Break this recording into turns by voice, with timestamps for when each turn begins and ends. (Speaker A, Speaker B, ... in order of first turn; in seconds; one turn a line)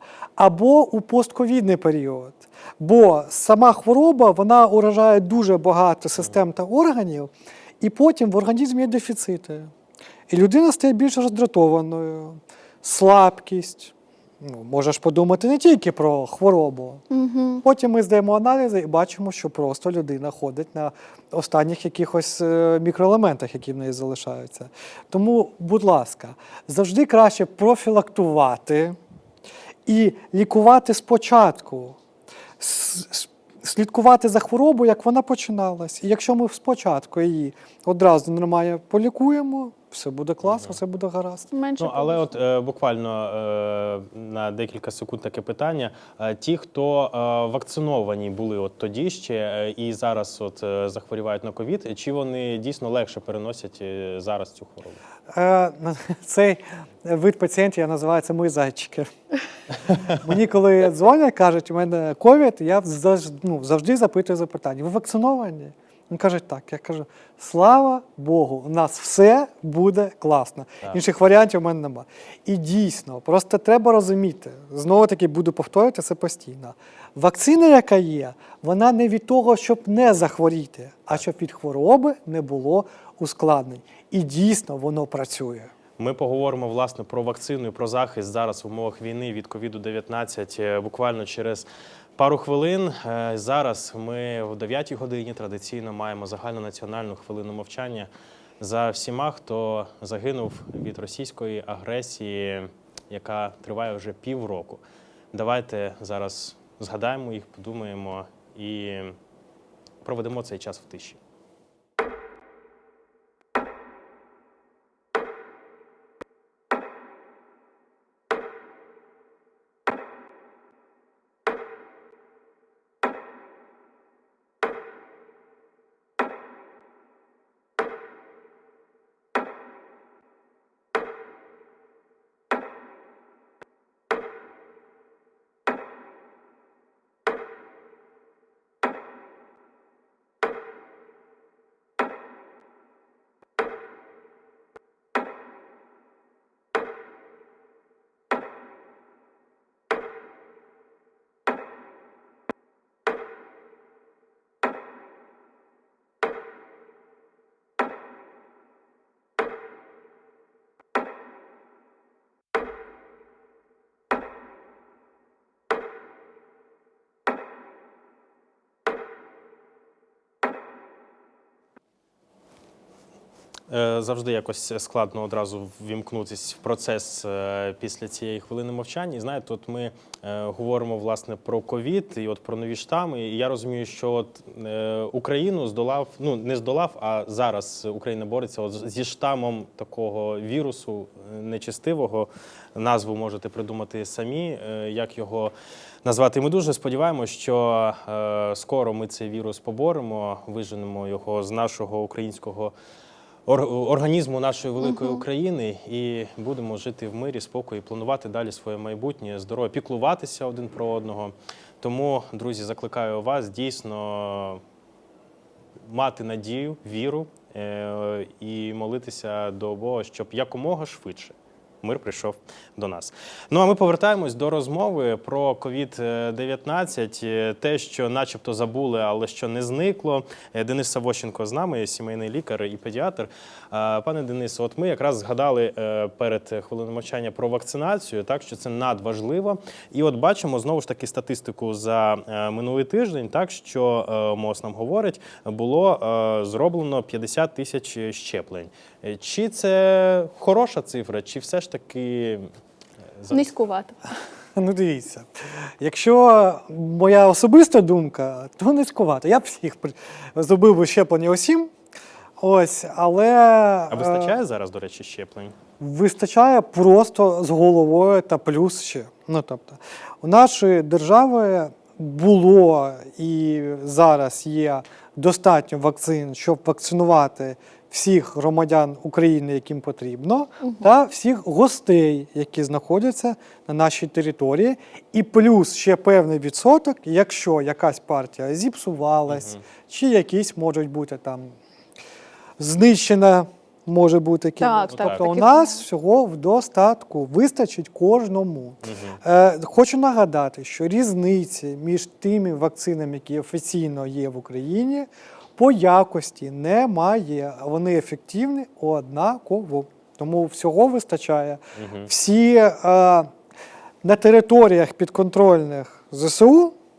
Speaker A: 0.4-9.7
Speaker A: 10.3-17.0
Speaker B: 17.1-17.6
Speaker A: 17.6-29.0
Speaker A: 29.9-31.9
Speaker A: 32.6-41.5
Speaker C: 40.4-40.8
Speaker B: 41.5-42.3
Speaker C: 41.8-55.0
Speaker A: 55.3-59.1
Speaker A: 60.1-85.7
Speaker C: 86.0-98.1
Speaker C: 98.6-104.8
Speaker C: 105.3-109.1
Speaker C: 110.0-111.2
Speaker C: 173.7-195.5
Speaker C: 196.0-202.7
Speaker C: 203.5-214.6
Speaker B: 204.8-205.2
Speaker C: 215.9-252.4
Speaker C: 253.2-253.5
Speaker B: 253.3-253.9
Speaker A: 254.6-255.3
Speaker A: 255.8-261.7
Speaker A: 262.4-264.3
Speaker C: 263.9-265.5
Speaker A: 265.8-291.5
Speaker C: 289.3-289.6
Speaker A: 292.6-313.3
Speaker B: 294.6-295.8
Speaker C: 294.9-295.3
Speaker C: 298.8-299.2
Speaker C: 311.8-312.1
Speaker A: 314.0-316.7